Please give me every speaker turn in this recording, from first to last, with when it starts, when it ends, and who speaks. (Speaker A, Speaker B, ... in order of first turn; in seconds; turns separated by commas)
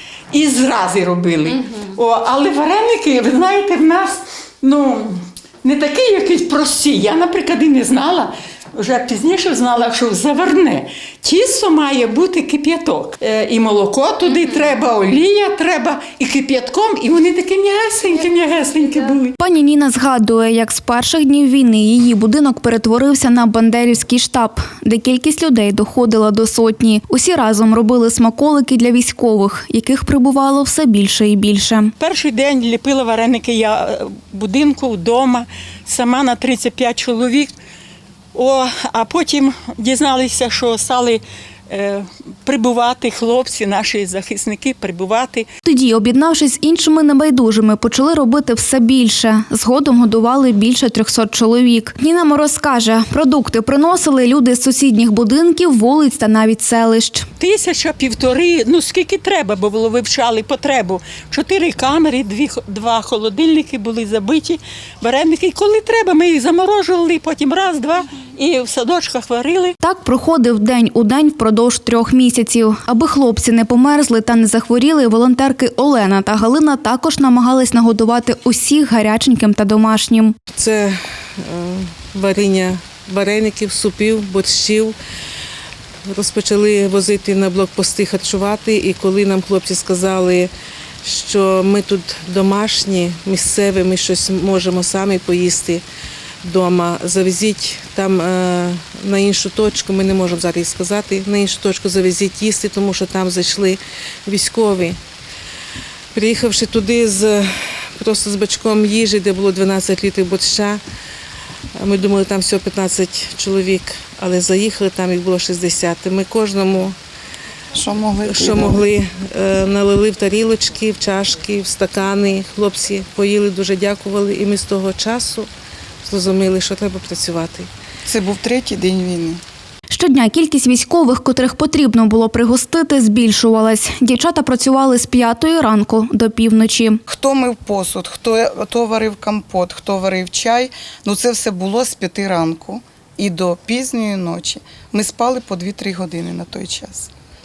Speaker A: 0.3-19.3, Speaker B: 19.4-31.9, Speaker A: 32.0-37.5, Speaker A: 38.3-45.5, Speaker B: 45.6-57.3, Speaker A: 57.4-69.8, Speaker B: 69.8-80.3, Speaker C: 80.5-84.9, Speaker C: 86.1-90.5, Speaker C: 91.0-95.8, Speaker C: 96.4-105.0, Speaker C: 106.1-110.8, Speaker C: 111.8-117.0, Speaker D: 117.7-118.8, Speaker C: 118.2-125.5, Speaker C: 126.0-127.7, Speaker D: 128.1-129.4, Speaker B: 129.9-137.0, Speaker D: 137.1-147.1